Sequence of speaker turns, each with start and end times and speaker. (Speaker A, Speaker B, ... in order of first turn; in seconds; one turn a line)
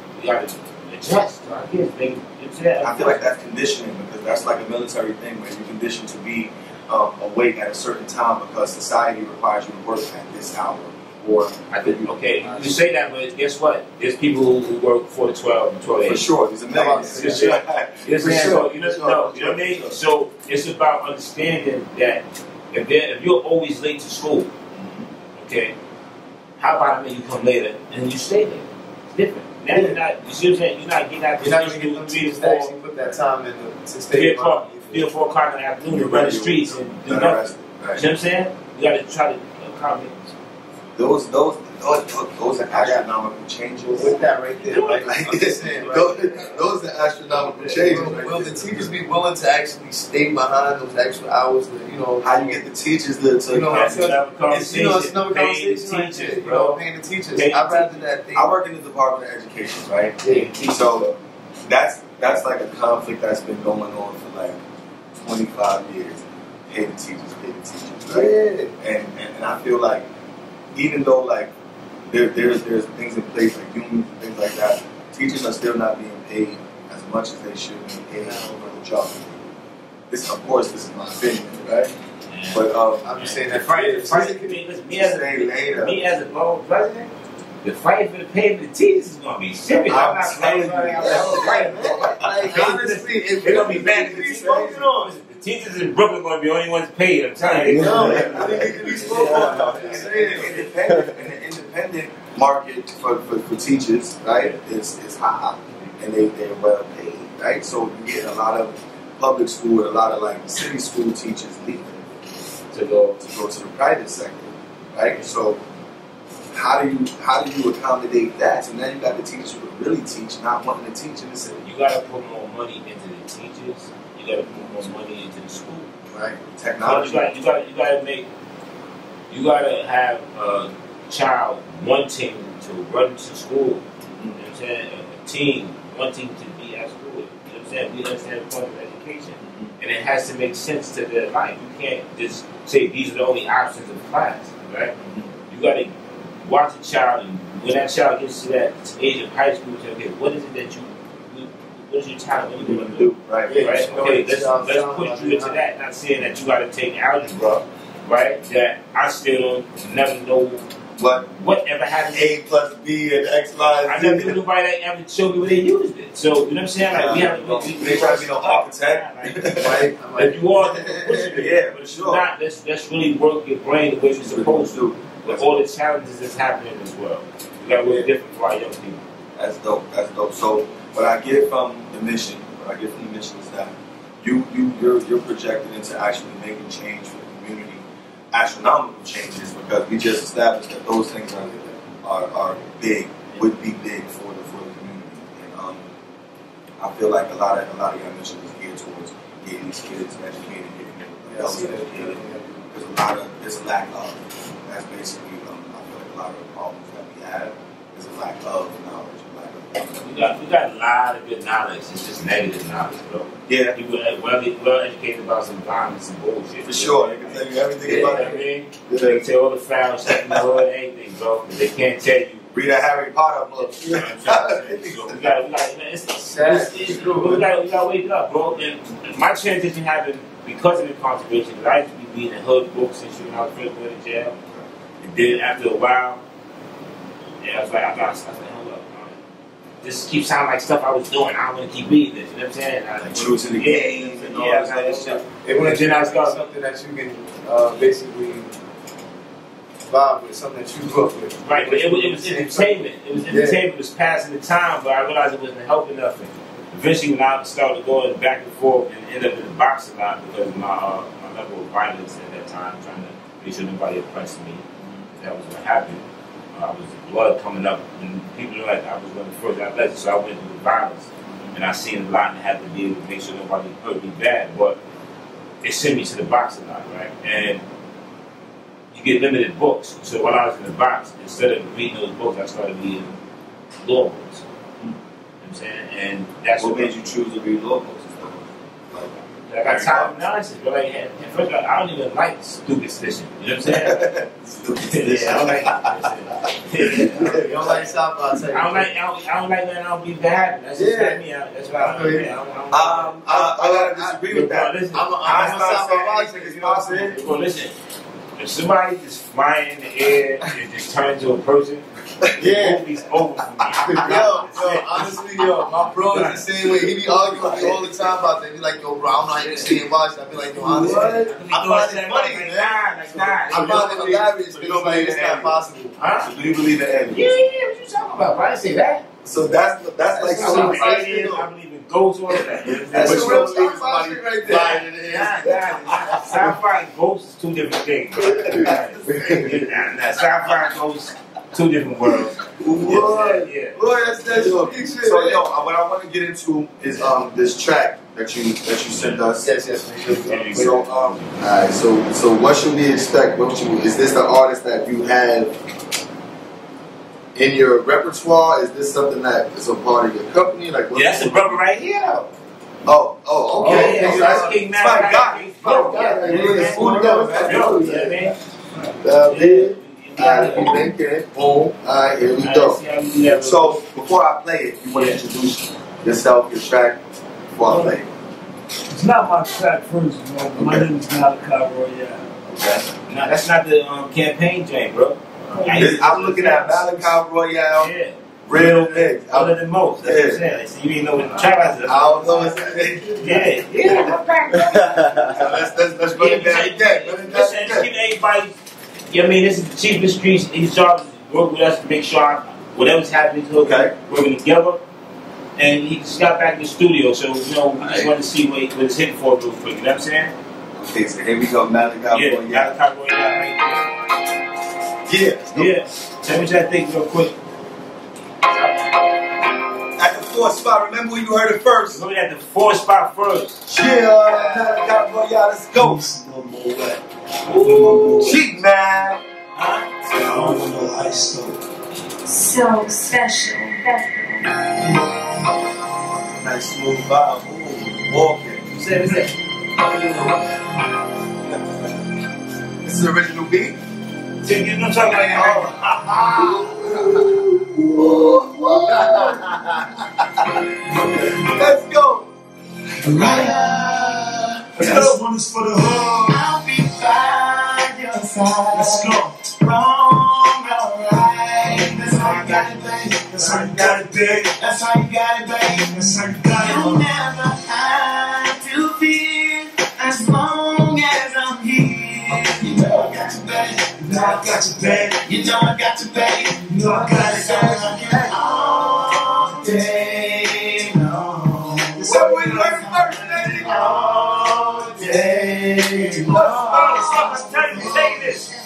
Speaker A: 0.1-3.3
Speaker B: 2.8-12.6
Speaker A: 11.7-16.3
Speaker B: 16.0-20.0
Speaker C: 16.7-17.5
Speaker A: 16.9-24.5
Speaker B: 24.7-25.1
Speaker A: 25.4-25.8
Speaker A: 26.6-32.7
Speaker C: 29.7-30.0
Speaker C: 31.4-35.1
Speaker A: 34.1-40.1
Speaker B: 35.9-38.0
Speaker B: 41.0-44.2
Speaker C: 42.7-43.0
Speaker C: 43.9-46.7
Speaker A: 44.6-45.5
Speaker B: 44.9-48.9
Speaker A: 47.3-48.1
Speaker C: 47.7-52.6
Speaker B: 52.2-54.1
Speaker C: 53.5-58.5
Speaker A: 53.7-56.8
Speaker A: 57.3-58.0
Speaker B: 58.3-61.1
Speaker C: 60.2-60.5
Speaker A: 60.2-61.1
Speaker B: 61.6-64.6
Speaker B: 65.1-70.1
Speaker C: 68.1-68.7
Speaker B: 70.7-71.5
Speaker B: 72.1-79.5
Speaker C: 78.1-78.7
Speaker B: 80.1-81.9
Speaker A: 82.3-87.1
Speaker B: 82.5-83.1
Speaker C: 83.0-84.5
Speaker B: 84.9-86.0
Speaker A: 87.6-100.6
Speaker B: 89.9-92.3
Speaker C: 89.9-95.1
Speaker B: 93.6-94.8
Speaker B: 97.4-112.1
Speaker C: 97.7-101.0
Speaker A: 104.3-104.6
Speaker A: 112.7-113.2
Speaker B: 113.2-115.6
Speaker B: 116.5-121.6
Speaker A: 121.6-125.9
Speaker B: 126.1-127.3
Speaker A: 126.8-128.3
Speaker A: 129.3-133.8
Speaker B: 134.1-134.4
Speaker A: 134.3-144.9
Speaker B: 139.4-139.7
Speaker B: 145.0-145.3
Speaker A: 145.5-145.9
Speaker A: 146.4-160.6
Speaker B: 152.6-154.0
Speaker C: 153.4-155.6
Speaker B: 161.0-161.3
Speaker A: 161.3-162.3
Speaker B: 162.1-164.4
Speaker A: 163.8-179.0
Speaker B: 166.9-169.9
Speaker C: 169.6-171.4
Speaker B: 171.0-172.2
Speaker B: 174.1-175.6
Speaker B: 177.8-178.1
Speaker B: 179.3-195.8
Speaker B: 196.8-210.2
Speaker C: 201.3-202.5
Speaker A: 210.0-222.5
Speaker B: 213.5-213.8
Speaker B: 216.6-219.2
Speaker C: 217.9-218.3
Speaker B: 220.1-220.4
Speaker B: 222.5-225.4
Speaker A: 223.5-234.3
Speaker C: 226.3-227.4
Speaker A: 235.0-236.2
Speaker A: 237.4-239.2
Speaker A: 239.8-246.5
Speaker B: 243.0-245.2
Speaker C: 245.4-248.5
Speaker C: 249.8-253.6
Speaker A: 251.4-266.0
Speaker A: 266.5-274.8
Speaker A: 275.6-277.6
Speaker A: 278.9-283.1
Speaker A: 283.8-284.4
Speaker A: 285.4-287.1
Speaker B: 286.6-290.2
Speaker A: 289.5-294.1
Speaker B: 293.6-297.8
Speaker A: 294.7-297.7
Speaker C: 297.2-298.9
Speaker A: 298.5-303.5
Speaker C: 300.8-301.2
Speaker C: 301.7-302.3
Speaker B: 302.7-307.2
Speaker C: 303.2-304.1
Speaker A: 304.2-305.2
Speaker C: 304.9-307.4
Speaker A: 307.2-307.7
Speaker A: 308.4-316.5
Speaker C: 312.4-312.8
Speaker B: 313.8-314.7
Speaker C: 313.9-325.9
Speaker B: 316.7-317.9
Speaker B: 319.5-319.8
Speaker B: 320.6-321.3
Speaker A: 320.7-323.9
Speaker B: 323.4-325.6
Speaker A: 326.0-326.3
Speaker B: 326.2-327.3
Speaker A: 327.1-329.0
Speaker B: 329.2-331.4
Speaker C: 330.1-331.4
Speaker A: 330.2-333.5
Speaker B: 332.6-334.9
Speaker C: 332.8-336.2
Speaker A: 334.5-343.8
Speaker B: 338.2-339.8
Speaker B: 342.1-349.5
Speaker C: 342.8-343.4
Speaker C: 344.2-345.4
Speaker C: 349.4-350.9
Speaker A: 350.1-351.4
Speaker B: 350.5-355.6
Speaker B: 357.3-361.6
Speaker A: 360.9-362.3
Speaker B: 362.8-368.1
Speaker C: 363.5-364.6
Speaker A: 363.6-370.9
Speaker C: 365.9-368.2
Speaker C: 369.0-371.8
Speaker B: 370.2-377.0
Speaker A: 372.3-373.8
Speaker A: 374.9-375.2
Speaker B: 377.5-378.1
Speaker A: 377.6-377.9
Speaker A: 378.9-382.2
Speaker B: 380.6-380.9
Speaker B: 382.5-382.9
Speaker A: 383.0-387.1
Speaker B: 385.7-387.9
Speaker A: 387.7-392.6
Speaker B: 388.4-390.4
Speaker B: 391.8-393.6
Speaker C: 392.0-393.0
Speaker A: 393.2-395.5
Speaker B: 395.1-397.9
Speaker A: 396.1-398.5
Speaker A: 399.1-404.8
Speaker B: 403.6-404.2
Speaker A: 405.6-410.3
Speaker B: 407.8-408.1
Speaker B: 410.7-412.8
Speaker A: 412.1-413.9
Speaker B: 415.1-415.7
Speaker A: 415.5-417.4
Speaker A: 418.4-419.1
Speaker B: 420.0-422.0
Speaker A: 421.9-423.6
Speaker B: 423.6-426.3
Speaker C: 424.2-424.8
Speaker D: 425.8-427.0
Speaker A: 427.4-428.4
Speaker D: 427.5-428.4
Speaker B: 428.1-429.2
Speaker A: 429.6-430.1
Speaker D: 430.1-431.6
Speaker E: 432.3-434.6
Speaker B: 436.3-438.6
Speaker A: 438.7-439.4
Speaker B: 441.4-441.9
Speaker B: 442.8-443.8
Speaker A: 444.4-446.8
Speaker B: 445.1-452.3
Speaker F: 453.0-455.1
Speaker D: 454.8-456.5
Speaker A: 454.8-455.1
Speaker F: 456.3-464.0
Speaker D: 458.7-459.5
Speaker D: 462.1-464.6
Speaker F: 464.6-487.4
Speaker D: 465.9-467.1
Speaker D: 474.0-475.4
Speaker D: 476.6-478.0
Speaker B: 482.0-484.1
Speaker B: 485.0-485.4
Speaker B: 486.3-487.2
Speaker D: 486.3-488.4
Speaker A: 486.3-488.5